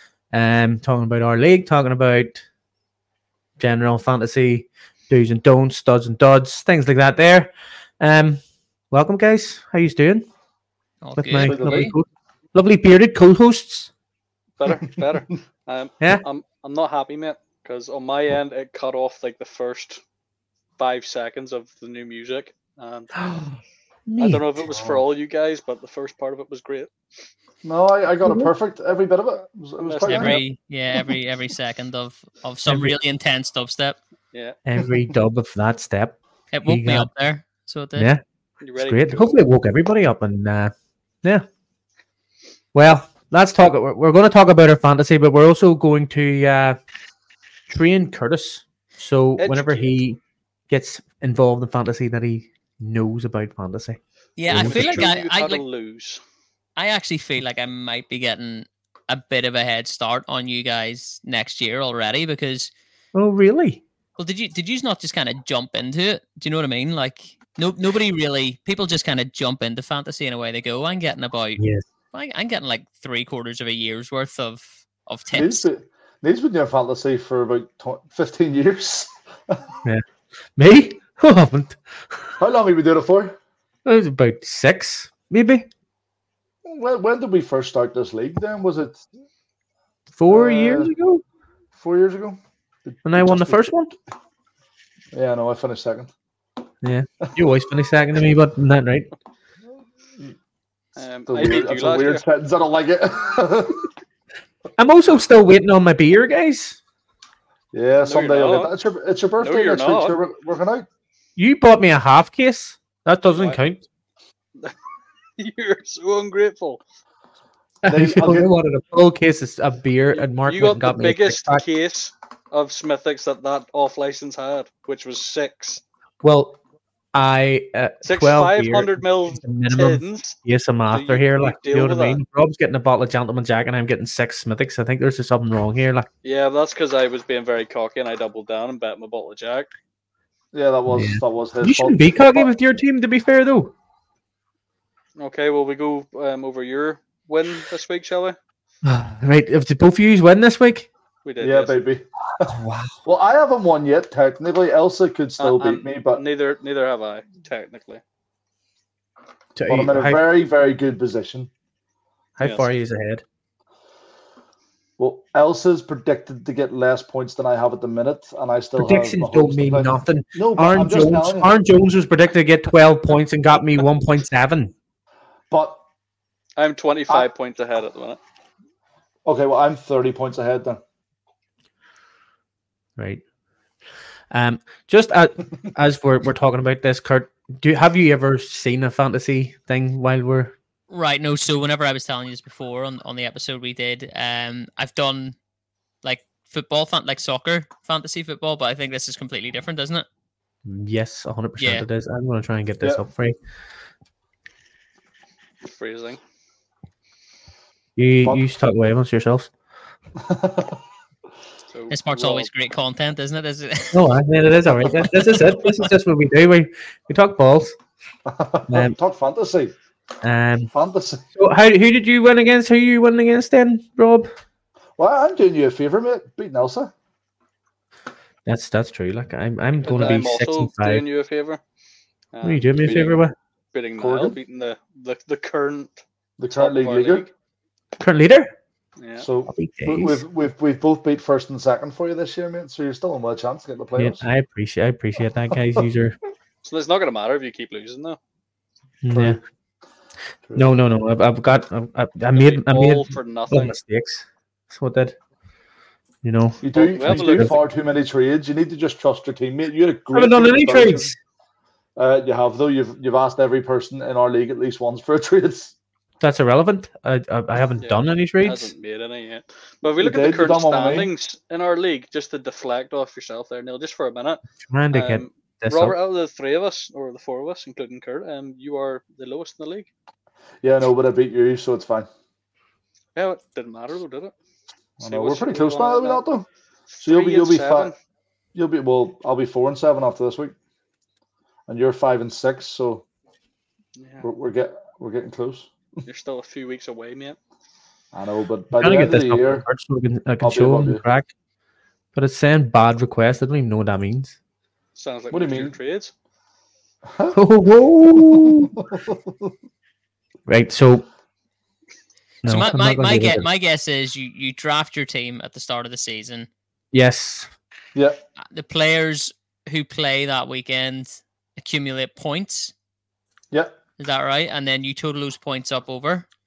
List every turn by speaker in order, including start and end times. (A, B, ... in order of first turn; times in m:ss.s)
0:00.3-0:02.4 A
0:03.6-0:10.3 A
0:11.0-0:11.9 B
0:11.2-0:13.9 A
0:11.4-0:11.9 C
0:14.6-0:20.0 D
0:20.8-0:23.2 D
0:23.2-0:23.5 A
0:24.1-0:24.9 A
0:24.2-0:26.9 D
0:27.6-0:30.4 C
0:28.2-0:28.5 A
0:29.8-0:30.4 D
0:30.0-0:34.0 B
0:32.7-0:32.9 A
0:34.7-0:37.1 A
0:36.5-0:38.1 B
0:38.0-0:38.2 A
0:38.6-0:39.4 D
0:38.8-0:41.4 A
0:42.7-0:46.8 A
0:47.7-0:55.1 A
0:49.4-0:49.9 D
0:54.4-0:55.6 B
0:54.5-0:56.2 D
0:56.8-1:02.7 B
1:03.1-1:03.8 A
1:04.2-1:15.6 B
1:11.6-1:11.8 A
1:15.3-1:19.6 C
1:20.6-1:22.1 A
1:22.4-1:23.4 C
1:23.8-1:25.7 A
1:26.6-1:29.1 C
1:30.1-1:31.2 A
1:30.3-1:30.9 C
1:31.8-1:33.7 C
1:33.0-1:33.9 A
1:35.1-1:36.1 C
1:36.8-1:39.1 A
1:41.0-1:42.2 D
1:41.3-1:43.9 C
1:44.8-1:46.8 A
1:47.7-1:50.9 C
1:48.0-1:48.7 D
1:49.4-1:50.2 D
1:51.4-1:53.8 A
1:53.3-1:53.6 D
1:55.4-1:56.8 D
1:57.8-2:01.6 A
1:57.9-1:58.5 C
2:00.1-2:05.8 D
2:06.2-2:06.6 A
2:07.1-2:16.1 A
2:08.0-2:10.4 D
2:10.9-2:12.2 D
2:16.2-2:19.7 D
2:20.5-2:22.5 C
2:20.9-2:23.7 A
2:25.2-2:28.4 D
2:28.8-2:30.9 A
2:31.2-2:31.8 D
2:31.4-2:32.5 C
2:32.5-2:32.9 A
2:33.0-2:36.2 C
2:35.4-2:38.0 D
2:39.6-2:40.2 A
2:39.7-2:41.5 C
2:42.4-2:43.2 A
2:42.4-2:42.7 D
2:45.0-2:51.5 C
2:48.8-2:54.7 A
2:55.5-2:55.8 C
2:56.6-2:58.2 D
2:59.2-3:00.8 C
3:03.0-3:03.2 A
3:04.3-3:10.5 A
3:10.9-3:15.4 B
3:16.0-3:20.1 B
3:20.7-3:23.4 A
3:21.6-3:21.8 B
3:25.7-3:26.2 D
3:28.0-3:29.5 A
3:30.2-3:30.8 C
3:31.7-3:32.5 D
3:31.9-3:34.0 B
3:33.9-3:37.8 A
3:35.0-3:35.6 B
3:38.2-3:39.7 C
3:38.7-3:39.0 A
3:40.2-3:40.7 A
3:40.7-3:41.2 C
3:41.4-3:44.3 A
3:45.0-3:46.9 C
3:48.4-3:51.0 A
3:49.8-3:51.6 D
3:52.3-3:53.2 D
3:52.4-3:53.3 A
3:53.7-3:56.0 D
3:54.0-3:54.4 C
3:56.4-3:57.3 C
3:56.5-3:57.3 D
3:58.0-3:58.5 A
3:59.0-3:59.3 D
3:59.2-4:04.2 C
3:59.5-4:00.2 A
4:04.0-4:06.2 A
4:06.6-4:08.2 D
4:09.0-4:09.4 A
4:09.1-4:09.4 C
4:10.6-4:15.2 A
4:12.3-4:13.8 D
4:16.2-4:17.5 A
4:16.6-4:21.1 C
4:16.7-4:17.6 D
4:20.1-4:21.2 A
4:22.0-4:25.7 C
4:26.2-4:28.7 A
4:27.8-4:34.4 D
4:30.0-4:31.1 C
4:34.7-4:36.0 A
4:34.9-4:39.9 D
4:40.6-4:42.1 C
4:43.2-4:44.3 D
4:45.0-4:46.4 C
4:45.0-4:46.2 D
4:46.9-4:47.9 D
4:47.0-4:47.9 C
4:48.6-4:50.5 C
4:51.7-4:53.0 C
4:54.0-4:54.2 D
4:54.2-4:55.7 C
4:56.0-4:57.4 D
4:58.1-4:59.6 C
4:58.8-5:01.3 A
5:00.4-5:01.0 C
5:02.1-5:04.4 A
5:05.0-5:06.1 D
5:05.3-5:05.8 C
5:07.1-5:07.4 C
5:07.3-5:08.8 A
5:08.1-5:09.5 C
5:10.5-5:11.1 A
5:12.4-5:13.4 A
5:12.4-5:16.5 B
5:16.9-5:17.5 A
5:18.4-5:22.7 B
5:24.0-5:26.2 B